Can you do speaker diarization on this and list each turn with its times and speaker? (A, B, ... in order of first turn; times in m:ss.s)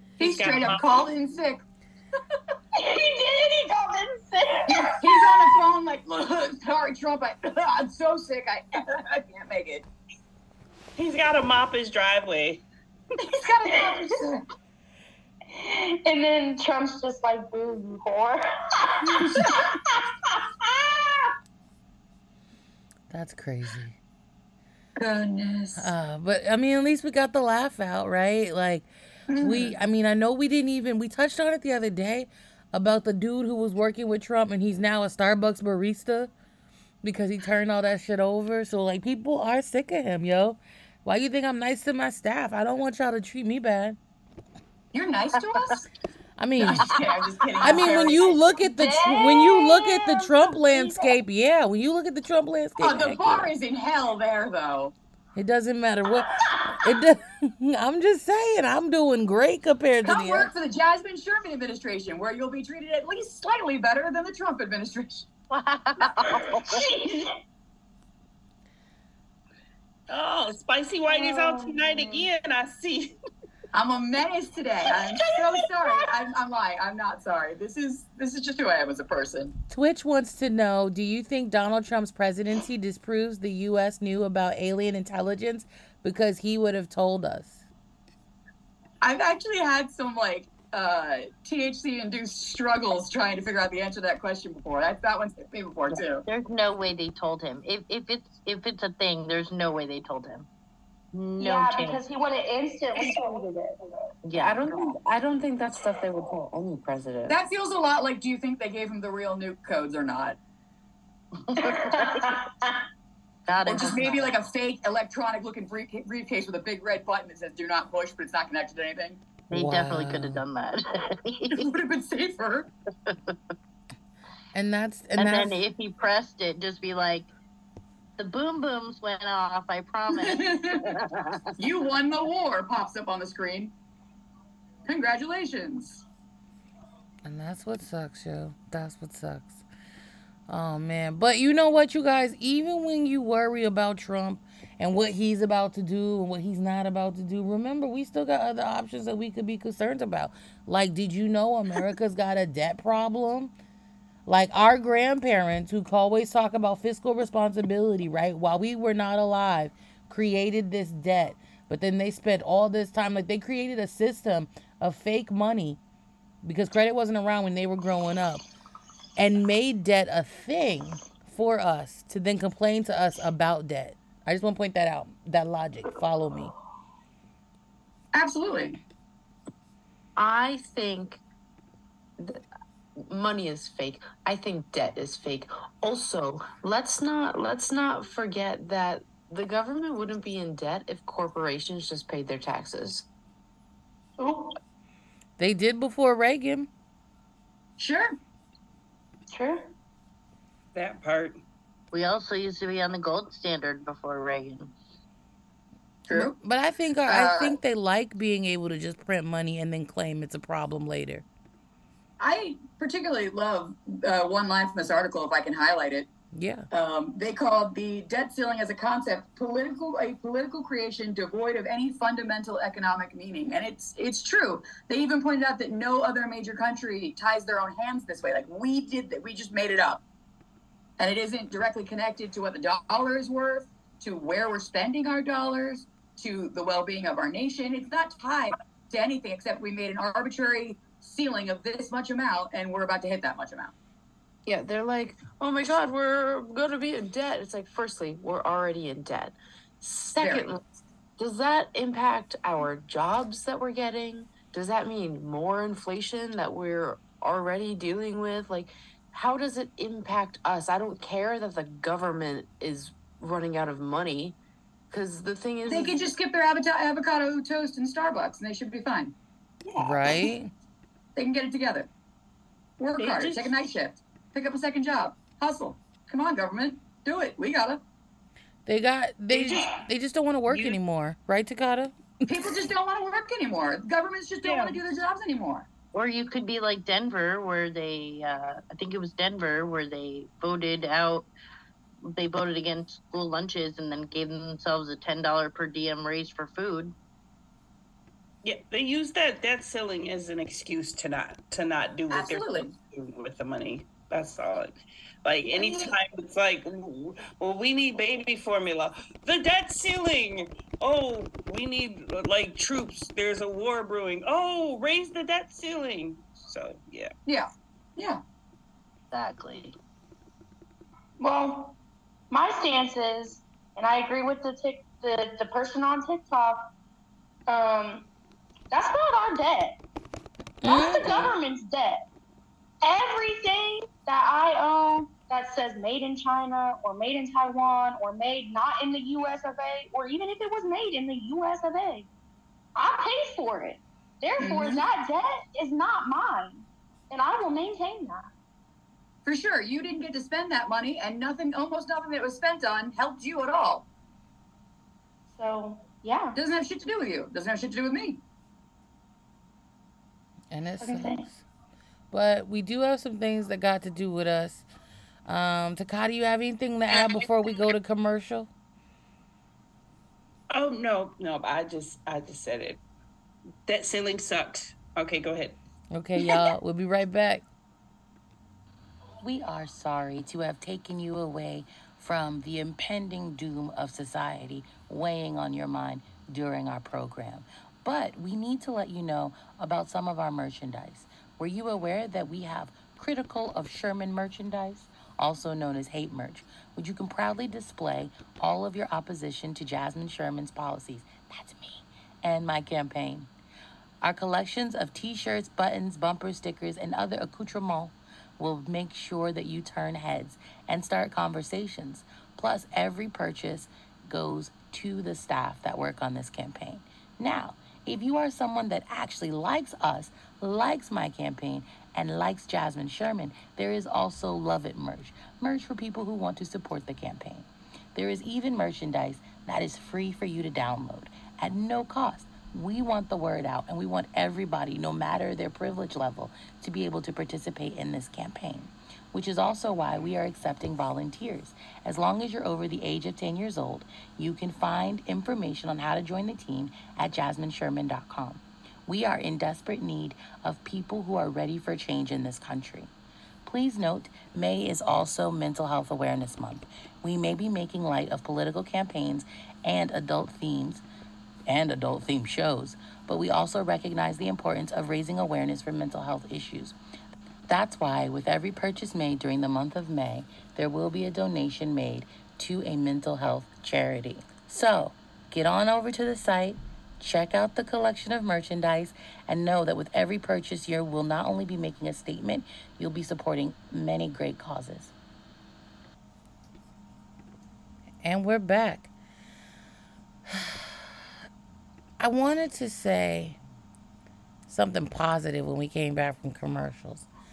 0:00.2-0:01.1 A
0:00.2-0:01.6 B
0:02.8-0:05.5 C
0:04.7-0:09.9 B
0:11.0-0:12.6 A
0:13.2-0:14.4 B
0:13.7-0:14.1 C
0:15.5-0:21.3 C
0:19.1-0:19.8 B
0:23.1-0:24.0 D
0:25.0-0:25.9 B
0:25.8-0:28.9 D
0:29.3-0:29.7 B
0:29.4-0:36.3 D
0:37.0-0:44.0 D
0:44.9-0:45.8 B
0:46.4-0:47.0 D
0:46.6-0:51.1 B
0:46.8-0:47.1 E
0:47.6-0:53.5 D
0:49.0-0:49.4 C
0:52.8-0:54.9 B
0:55.3-1:00.5 D
1:00.0-1:05.3 B
1:05.5-1:06.8 E
1:06.6-1:07.3 C
1:10.1-1:13.2 A
1:11.1-1:12.3 C
1:13.7-1:19.5 B
1:19.7-1:27.6 D
1:29.0-1:36.2 B
1:36.2-1:40.5 E
1:41.1-1:42.0 E
1:41.4-1:43.8 C
1:44.3-1:47.4 F
1:44.3-1:44.7 E
1:47.3-1:50.4 B
1:51.6-1:51.9 E
1:51.9-1:52.8 C
1:53.5-1:54.3 E
1:53.6-1:59.2 B
1:59.5-2:00.4 D
1:59.5-2:01.7 E
2:01.5-2:02.7 B
2:04.5-2:05.6 D
2:05.2-2:07.3 E
2:08.2-2:11.5 E
2:10.1-2:10.9 B
2:11.6-2:13.7 B
2:14.9-2:16.0 B
2:17.2-2:19.6 D
2:20.5-2:33.5 D
2:34.2-2:45.8 D
2:46.4-2:48.4 D
2:49.2-2:56.5 D
2:58.1-2:58.8 B
3:00.2-3:01.2 F
3:03.0-3:13.0 F
3:14.2-3:14.5 C
3:15.4-3:16.7 D
3:17.8-3:18.2 B
3:19.3-3:19.6 C
3:20.7-3:21.4 A
3:21.9-3:24.7 E
3:26.1-3:26.3 B
3:26.1-3:31.2 D
3:27.1-3:27.6 B
3:32.2-3:36.1 B
3:36.3-3:36.7 D
3:36.7-3:50.0 B
3:51.0-4:03.7 B
4:04.4-4:10.6 F
4:10.2-4:10.5 B
4:11.2-4:24.4 F
4:24.9-4:26.1 F
4:25.7-4:29.1 B
4:29.8-4:30.5 D
4:29.8-4:30.1 C
4:31.2-4:31.9 B
4:32.8-4:37.8 B
4:33.0-4:33.5 A
4:38.6-4:42.5 D
4:39.3-4:39.7 B
4:42.3-4:45.7 B
4:44.4-4:44.8 E
4:45.9-4:51.3 E
4:52.1-4:56.9 E
4:58.4-5:17.1 A
5:02.1-5:02.7 B
5:05.5-5:05.9 B
5:17.3-5:18.2 B
5:19.1-5:19.8 E
5:21.2-5:21.8 C
5:22.3-5:26.6 C
5:27.5-5:28.1 C
5:28.7-5:29.8 C
5:30.6-5:31.3 D
5:30.6-5:32.0 C
5:32.8-5:42.1 C
5:42.8-5:48.3 C
5:44.4-5:44.8 B
5:49.2-5:53.8 B
5:55.4-5:56.4 C
5:56.3-5:58.2 B
6:00.5-6:01.4 D
6:00.8-6:01.2 C
6:02.1-6:04.6 D
6:05.2-6:08.5 D
6:10.5-6:12.8 A
6:13.7-6:15.6 A
6:15.9-6:17.4 D
6:19.2-6:43.3 G
6:44.0-7:32.9 G
7:33.4-7:40.8 G
7:41.5-7:46.7 G
7:47.5-8:04.9 G
8:08.0-8:08.9 D
8:10.3-8:10.7 D
8:12.0-8:13.4 D
8:14.5-8:17.1 D